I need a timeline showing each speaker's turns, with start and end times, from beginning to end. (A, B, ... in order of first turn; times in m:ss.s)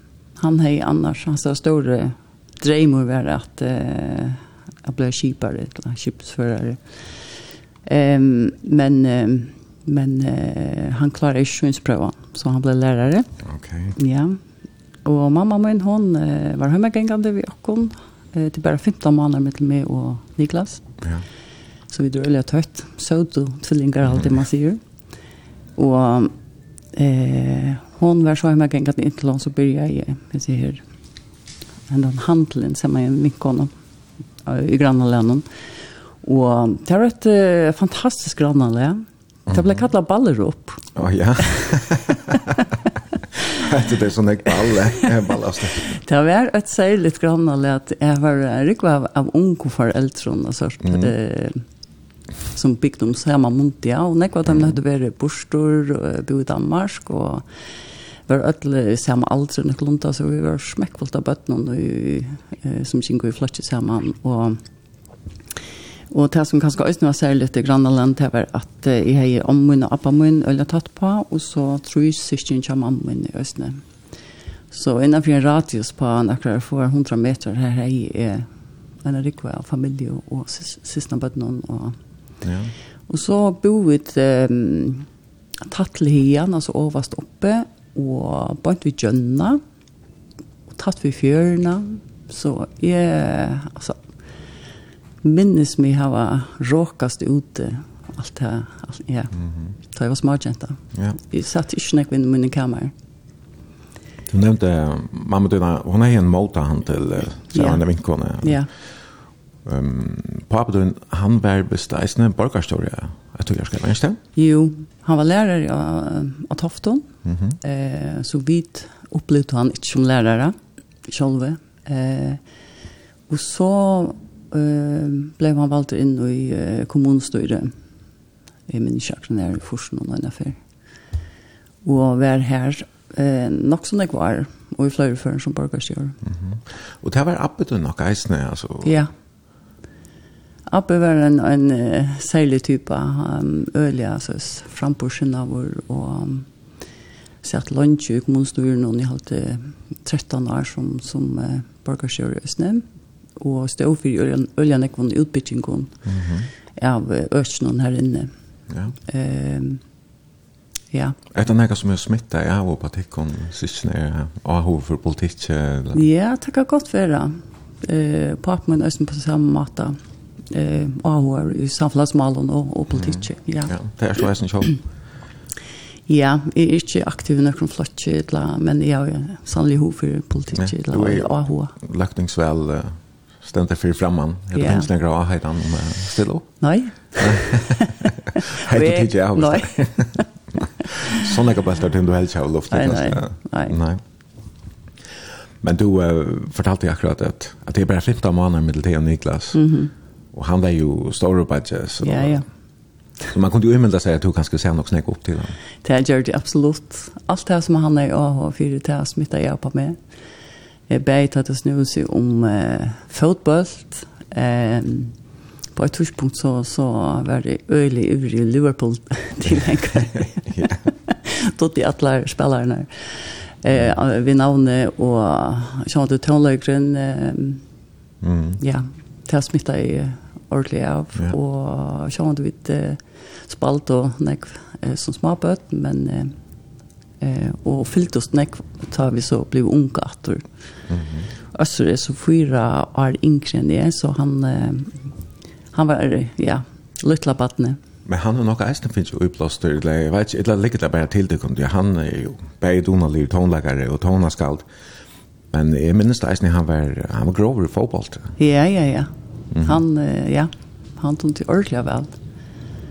0:00.4-0:07.3 A
0:07.8-0:13.3 A
0:13.4-0:14.0 B
0:14.0-0:14.4 A
0:15.0-0:20.8 A
0:21.9-0:24.8 A
0:25.8-0:26.3 A
0:26.9-0:30.8 A
0:31.9-0:33.7 A
0:34.4-0:35.4 A
0:36.2-0:40.8 A
0:39.5-0:39.8 B
0:40.9-0:42.4 B
0:41.4-0:41.7 A
0:42.3-0:42.6 A
0:43.5-0:46.0 B
0:45.9-0:51.6 A
0:50.8-0:51.1 B
0:52.5-0:57.4 A
0:58.3-1:04.6 A
1:06.1-1:13.8 A
1:14.7-1:18.5 A
1:19.0-1:22.0 A
1:22.4-1:22.7 B
1:23.1-1:25.1 A
1:25.6-1:29.6 A
1:30.7-1:34.0 A
1:35.2-1:39.3 A
1:39.4-1:39.7 B
1:39.9-1:42.9 A
1:44.3-1:48.6 B
1:47.5-1:47.8 A
1:48.4-1:48.7 A
1:49.6-1:54.2 B
1:54.4-1:57.1 A
1:57.2-1:57.6 B
1:57.6-2:00.6 A
2:01.1-2:02.4 A
2:03.3-2:07.7 A
2:08.7-2:10.6 A
2:11.8-2:16.2 A
2:16.2-2:19.0 B
2:18.8-2:19.1 A
2:20.7-2:26.5 A
2:27.4-2:32.8 A
2:33.4-2:35.9 A
2:36.0-2:36.5 B
2:36.8-2:38.3 A
2:38.7-2:38.9 B
2:39.0-2:39.8 A
2:40.9-2:41.2 A
2:41.3-2:46.0 B
2:45.9-2:50.0 A
2:50.5-2:53.7 A
2:52.9-2:54.8 B
2:56.1-3:01.7 A
3:00.5-3:14.0 B
3:04.5-3:04.9 A
3:06.6-3:10.2 A
3:12.7-3:13.8 A
3:15.6-3:19.6 B
3:19.5-3:19.9 A
3:20.3-3:22.4 B
3:22.0-3:22.4 A
3:23.3-3:25.6 B
3:25.8-3:30.0 A
3:30.9-3:35.1 A
3:35.7-3:47.6 A
3:40.5-3:40.8 B
3:48.2-3:48.6 B
3:48.6-3:56.4 A
3:57.2-4:00.5 A
4:00.9-4:01.3 B
4:01.5-4:05.0 A
4:05.7-4:07.8 A
4:08.0-4:14.6 B
4:15.5-4:18.3 B
4:18.4-4:19.1 A
4:19.5-4:19.8 B
4:19.6-4:22.1 A